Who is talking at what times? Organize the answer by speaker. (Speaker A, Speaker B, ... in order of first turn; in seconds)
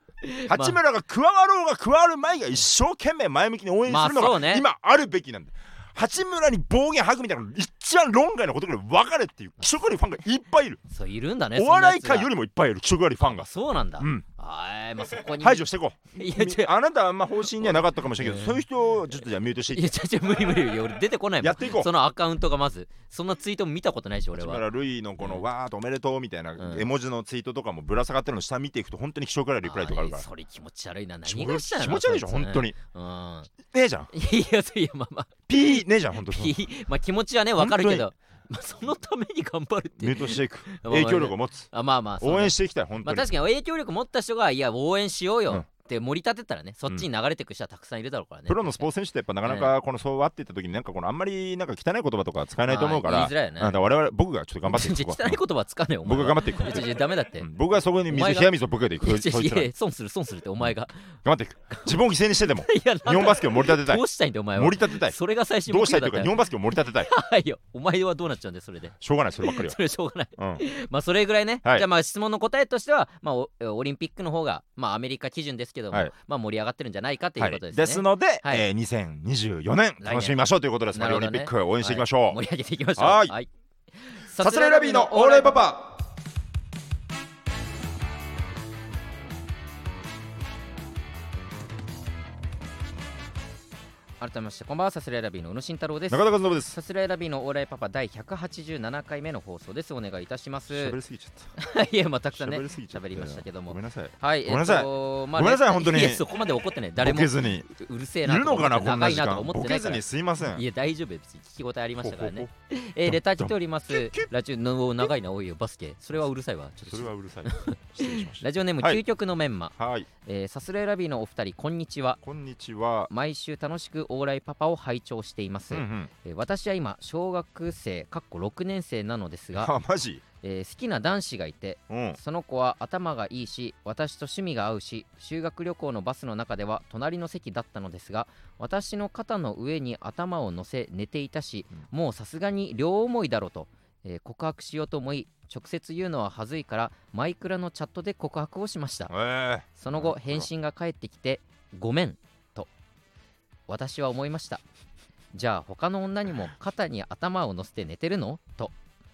Speaker A: 0.2-0.8, 3.9-4.6, 10.9-12.3, 13.2-16.7, 17.6-18.6, 19.7-24.6, 26.6-26.9, 29.6-33.5, 34.1-48.9, 49.4-49.7, 52.7-53.9, 54.7-57.5, 58.1-61.1, 61.7-62.0, 62.6-78.7, 80.0-80.4, 80.9-85.7, 94.2-101.0, 101.6-119.7, 120.2-122.2, 123.1-129.7, 130.4-149.1, 149.8-152.7, 153.7-154.6, 155.3-158.7
Speaker B: 0.5-10.8, 11.6-14.2, 15.3-19.9, 21.4-21.9, 24.3-30.2, 31.2-32.8, 33.6-34.1, 35.5-36.6, 37.6-38.1, 40.0-41.7, 42.2-43.3, 48.5-55.4, 56.0-59.7, 61.2-64.0, 64.5-67.1, 69.0-69.8, 70.4-70.7, 77.4-82.4, 83.0-83.3, 84.4-85.9, 96.1-96.8, 100.7-101.5, 102.3-106.2, 107.0-107.7, 108.2-110.6, 112.0-112.5, 113.1-114.3, 116.8-119.0, 119.8-120.1, 122.2-123.1, 125.7-126.1, 129.6-130.2, 131.9-132.2, 149.1-150.5